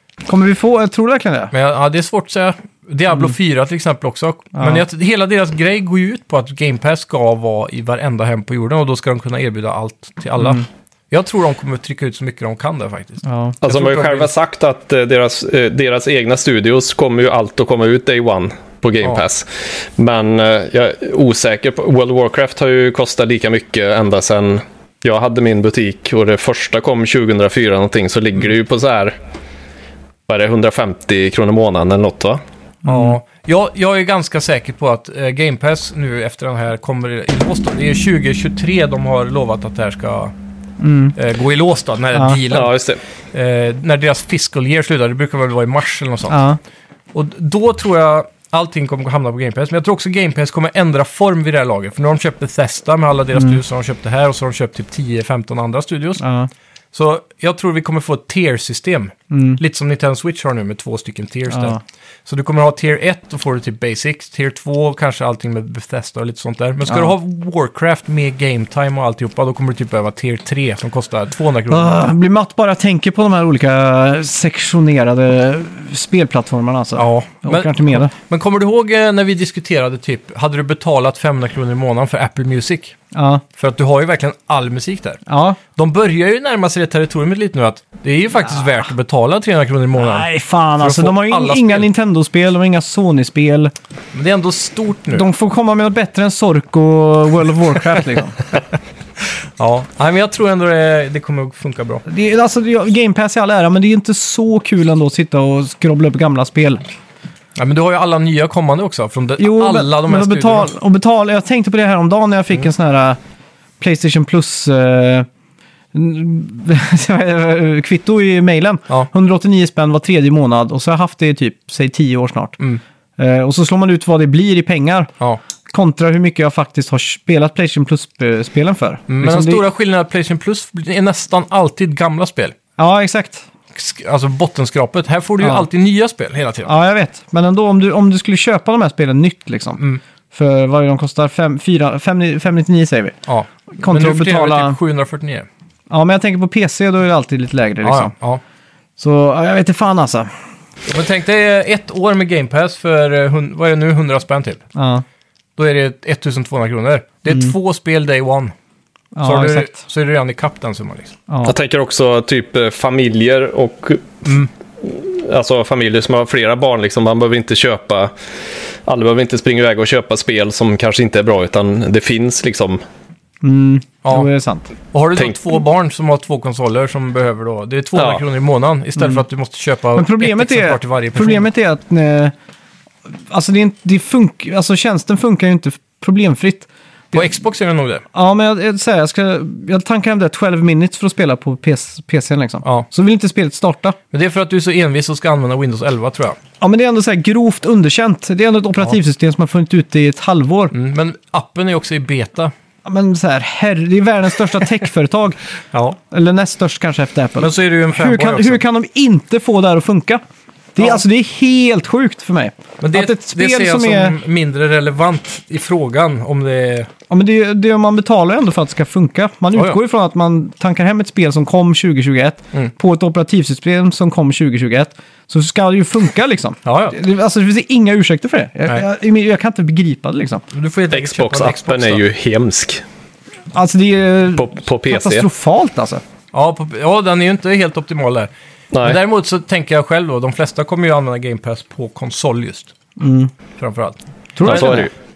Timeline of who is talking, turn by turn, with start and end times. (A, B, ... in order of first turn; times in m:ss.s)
0:00.3-0:01.5 A
0:01.5-0:14.3 B
0:04.6-0:04.8 A
0:10.4-0:10.6 A
0:13.2-0:13.6 A
0:13.6-0:29.2 C
0:30.3-0:32.4 C
0:32.8-0:33.2 A
0:32.8-0:40.3 B
0:40.8-0:41.2 A
0:41.2-0:42.8 B
0:42.1-0:42.4 A
0:42.5-0:43.0 C
0:43.3-0:46.4 B
0:46.3-0:46.6 A
0:47.1-0:56.2 B
0:53.3-0:53.6 A
0:56.2-0:56.5 A
0:56.9-1:12.1 B
0:59.3-0:59.6 A
1:01.5-1:01.8 A
1:11.7-1:18.1 A
1:17.0-1:22.9 B
1:23.1-1:23.4 A
1:23.6-1:25.2 B
1:25.3-1:25.6 A
1:25.7-1:30.3 B
1:28.5-1:28.8 A
1:30.0-1:33.7 A
1:30.8-1:31.9 B
1:34.1-1:35.2 B
1:35.1-1:38.4 A
1:39.6-1:42.0 B
1:42.0-1:46.8 A
1:47.6-1:50.7 B
1:49.4-1:53.2 A
1:53.8-1:55.3 A
1:55.9-2:02.6 A
2:03.2-2:05.1 A
2:05.7-2:09.6 A
2:09.1-2:12.5 B
2:12.8-2:13.4 A
2:13.7-2:16.7 B
2:15.4-2:15.6 A
2:16.6-2:19.8 A
2:20.3-2:23.2 A
2:23.3-2:25.5 B
2:23.8-2:24.8 A
2:25.9-2:28.1 A
2:27.8-2:28.4 B
2:29.0-2:30.3 A
2:30.9-2:34.6 B
2:34.7-2:35.0 A
2:35.6-2:38.5 B
2:39.2-2:39.8 A
2:39.2-2:41.2 B
2:41.3-2:41.5 A
2:41.4-2:44.2 C
2:44.2-2:44.5 B
2:44.8-2:48.1 C
2:48.8-2:52.8 C
2:53.4-2:54.7 A
2:54.9-3:01.5 B
2:57.9-2:58.2 C
3:00.0-3:02.3 A
3:03.3-3:07.2 A
3:07.1-3:08.0 B
3:08.1-3:14.0 A
3:14.1-3:16.4 B
3:16.6-3:20.7 A
3:20.7-3:22.5 B
3:22.8-3:25.4 A
3:26.1-3:30.2 A
3:27.4-3:28.6 B
3:30.7-3:34.2 A
3:32.8-3:36.9 B
3:37.1-3:50.4 A
3:46.6-3:47.0 B
3:50.5-3:52.0 B
3:50.9-3:52.8 C
3:53.5-3:56.0 A
3:54.3-3:55.3 C
3:56.3-4:02.7 B
3:58.7-3:59.0 C
4:03.0-4:03.3 A
4:03.6-4:04.0 B
4:04.3-4:04.9 A
4:04.4-4:04.9 C